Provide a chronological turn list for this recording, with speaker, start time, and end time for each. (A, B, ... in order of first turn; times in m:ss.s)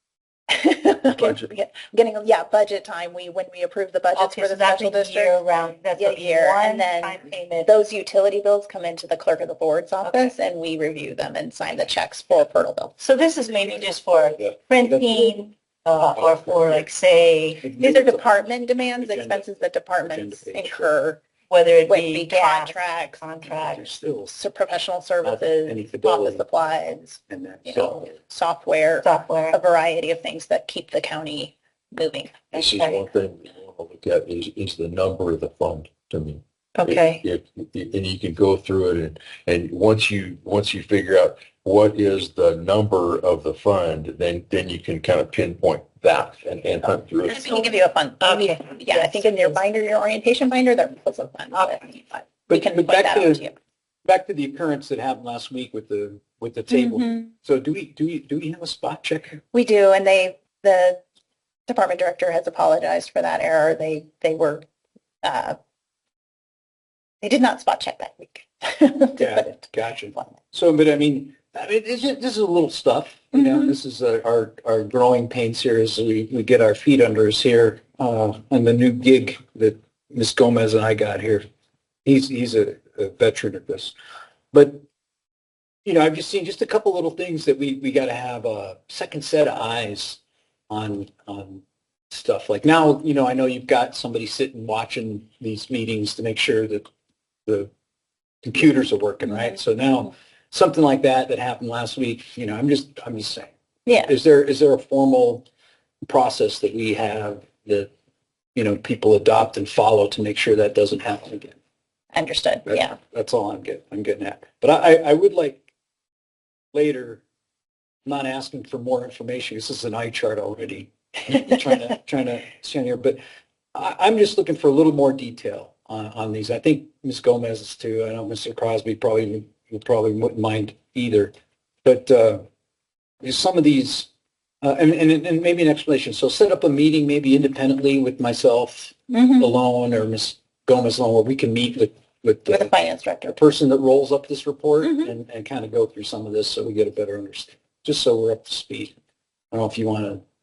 0:00.5-0:05.4 A
0:04.1-0:07.7 B
0:06.0-0:12.9 A
0:10.0-0:10.3 B
0:13.0-0:17.6 B
0:16.2-0:16.8 C
0:17.6-0:18.3 C
0:17.8-0:21.2 A
0:19.0-0:19.5 C
0:20.1-0:20.9 C
0:21.5-0:23.9 B
0:21.9-0:23.2 A
0:23.5-0:24.3 C
0:24.3-0:32.4 A
0:25.2-0:26.4 C
0:27.3-0:28.2 C
0:29.0-0:29.6 B
0:32.5-0:33.0 B
0:32.5-0:47.5 D
0:36.8-0:37.2 B
0:36.8-0:37.2 A
0:47.3-0:53.5 A
0:47.3-0:47.6 B
0:48.2-0:49.6 B
0:51.5-0:51.9 C
0:52.4-0:53.5 C
0:54.0-0:59.4 C
0:56.7-0:57.3 A
0:59.5-1:01.0 A
1:01.7-1:04.6 A
1:05.2-1:05.6 A
1:07.2-1:09.6 A
1:09.2-1:21.4 C
1:22.0-1:23.9 C
1:24.5-1:24.8 C
1:25.8-1:36.9 C
1:38.4-1:43.5 C
1:43.9-1:44.1 A
1:44.0-1:45.4 C
1:46.0-1:47.9 C
1:48.6-1:51.6 C
1:52.1-1:53.0 A
1:52.7-1:55.6 C
1:56.7-1:57.2 C
1:58.0-2:03.2 C
2:03.7-2:11.3 C
2:11.8-2:12.4 C
2:13.2-2:14.1 C
2:14.6-2:22.7 C
2:19.1-2:19.5 A
2:22.5-2:23.5 A
2:23.4-2:28.9 C
2:24.8-2:25.1 A
2:29.5-2:30.2 C